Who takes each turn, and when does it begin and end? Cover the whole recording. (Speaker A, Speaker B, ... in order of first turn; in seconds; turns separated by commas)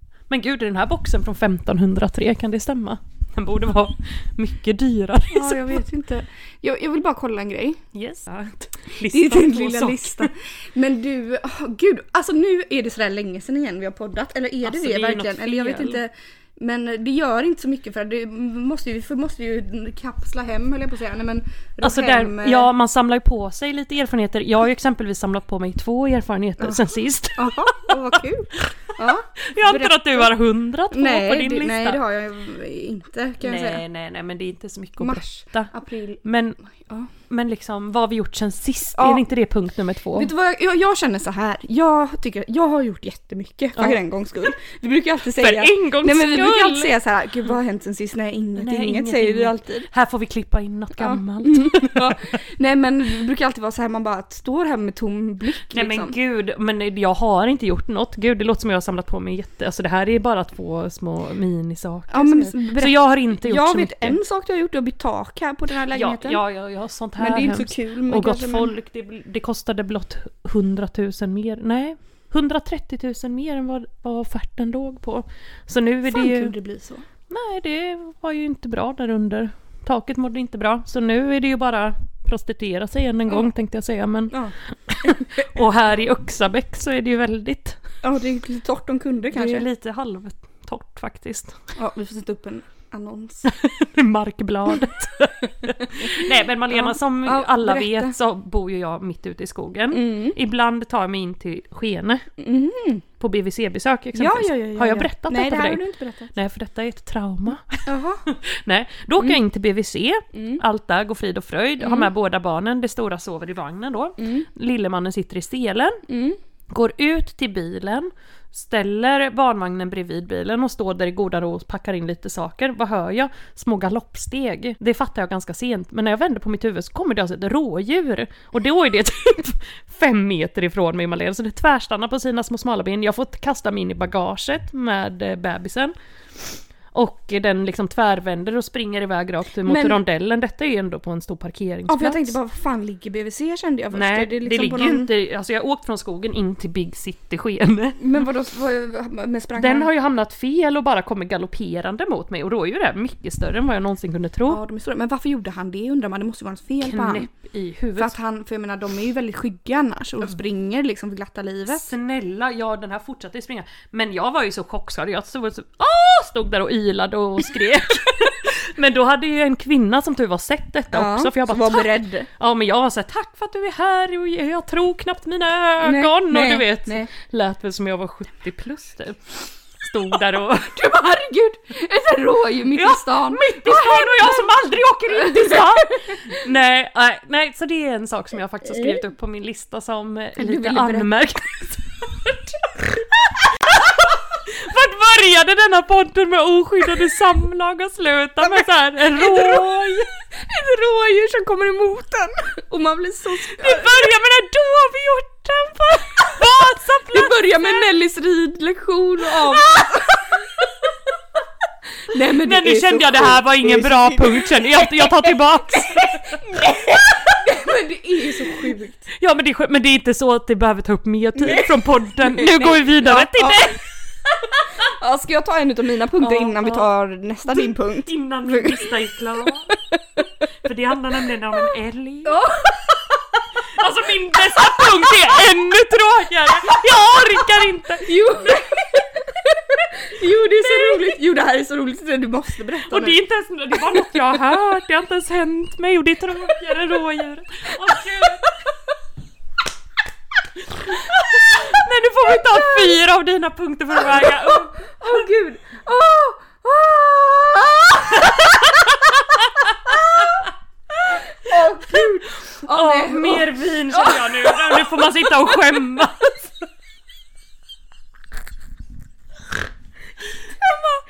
Speaker A: 0.3-5.9, Speaker B: 5.3-7.8, Speaker A: 7.9-10.3, Speaker B: 9.0-22.7, Speaker A: 14.6-16.0, Speaker A: 21.8-32.0, Speaker B: 26.6-30.4, Speaker B: 30.9-33.9, Speaker A: 33.4-35.7, Speaker B: 35.0-37.1, Speaker A: 36.2-36.6, Speaker A: 37.3-40.3, Speaker B: 39.0-39.2, Speaker B: 40.1-49.9, Speaker A: 45.3-46.9, Speaker A: 48.6-52.4, Speaker B: 51.0-56.1, Speaker A: 55.7-64.2, Speaker B: 62.1-66.4, Speaker A: 65.9-76.5, Speaker B: 67.2-68.7, Speaker B: 76.1-77.0, Speaker A: 77.3-87.8, Speaker B: 84.3-85.4, Speaker B: 88.0-89.7, Speaker A: 89.3-91.6, Speaker B: 91.8-93.5, Speaker A: 93.5-102.2, Speaker B: 95.8-98.2, Speaker B: 99.9-100.4, Speaker B: 102.4-103.0, Speaker A: 103.2-105.8, Speaker B: 104.2-106.3, Speaker A: 106.3-116.0, Speaker B: 107.9-108.2, Speaker B: 110.3-110.6, Speaker B: 111.8-112.1, Speaker B: 114.2-114.5, Speaker B: 116.1-116.4, Speaker A: 116.7-142.4, Speaker B: 139.7-140.0, Speaker B: 141.9-145.1, Speaker A: 143.9-148.0, Speaker B: 148.0-149.9, Speaker A: 149.6-154.6, Speaker B: 154.5-157.3, Speaker A: 156.8-158.2, Speaker B: 158.0-161.9, Speaker A: 161.7-180.8, Speaker B: 170.9-172.3, Speaker B: 175.8-177.1, Speaker B: 180.6-184.5, Speaker A: 182.7-200.0, Speaker B: 185.2-186.4, Speaker B: 190.4-191.3, Speaker B: 198.4-204.1, Speaker A: 203.5-207.9, Speaker B: 206.0-206.5, Speaker B: 207.1-210.5, Speaker A: 209.3-209.7, Speaker B: 212.0-219.1, Speaker A: 212.4-216.6, Speaker A: 218.4-223.8, Speaker B: 221.3-223.8, Speaker B: 224.7-229.8, Speaker A: 226.2-226.9, Speaker A: 227.5-229.7, Speaker A: 230.6-232.5, Speaker B: 232.2-232.9, Speaker A: 233.6-238.7, Speaker B: 238.0-243.2, Speaker A: 240.7-241.1, Speaker A: 242.9-248.5, Speaker A: 250.8-255.3, Speaker B: 251.1-251.8, Speaker B: 252.4-252.8, Speaker B: 254.2-258.9, Speaker B: 259.5-260.4, Speaker B: 261.1-265.0, Speaker A: 261.5-266.5